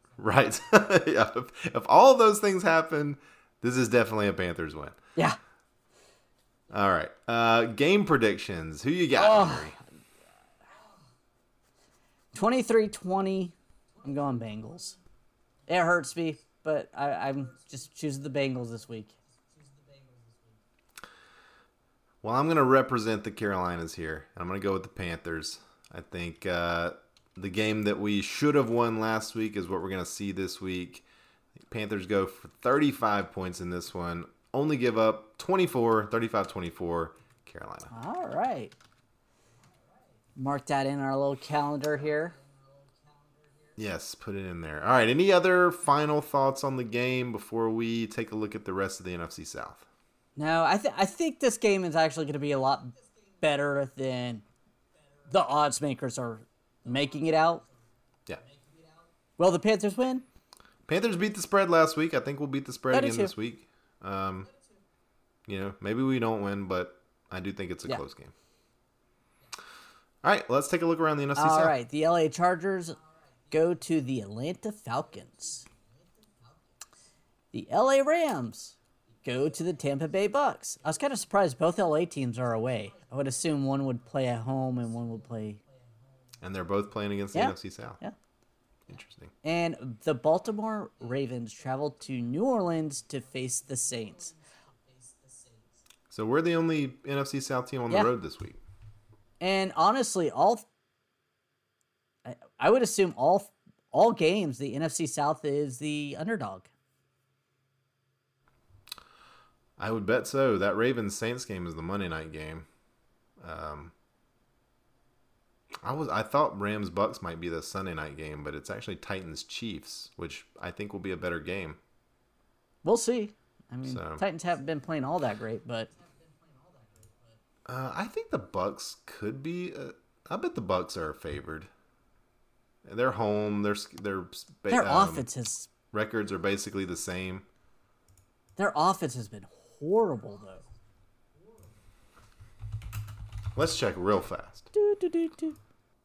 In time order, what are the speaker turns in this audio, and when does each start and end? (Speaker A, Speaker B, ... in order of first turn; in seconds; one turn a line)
Speaker A: 0.2-5.0
Speaker A: 6.7-9.8
Speaker B: 9.2-9.7
Speaker B: 12.3-15.0
Speaker B: 15.7-19.1
Speaker A: 22.2-31.1
Speaker A: 31.6-37.9
Speaker B: 37.9-38.7
Speaker B: 40.4-42.4
Speaker A: 43.8-49.9
Speaker B: 50.4-54.4
Speaker B: 55.3-57.6
Speaker B: 59.4-60.2
Speaker A: 60.9-64.5
Speaker B: 62.9-63.3
Speaker A: 65.5-68.3
Speaker A: 70.2-71.8
Speaker B: 71.4-73.0
Speaker B: 73.5-75.7
Speaker B: 77.5-85.6
Speaker A: 86.4-88.0
Speaker B: 87.3-88.1
Speaker A: 88.9-89.3
Speaker B: 89.4-94.3
Speaker A: 96.1-98.6
Speaker B: 99.4-100.7
Speaker B: 102.3-106.7
Speaker A: 109.8-112.7
Speaker A: 113.4-113.9
Speaker A: 115.8-121.8
Speaker B: 122.8-125.9
Speaker A: 123.9-124.2
Speaker A: 127.7-131.7
Speaker A: 132.8-135.3
Speaker B: 134.7-135.7
Speaker A: 135.9-137.5
Speaker B: 138.6-140.7
Speaker A: 143.6-144.7
Speaker B: 144.7-145.6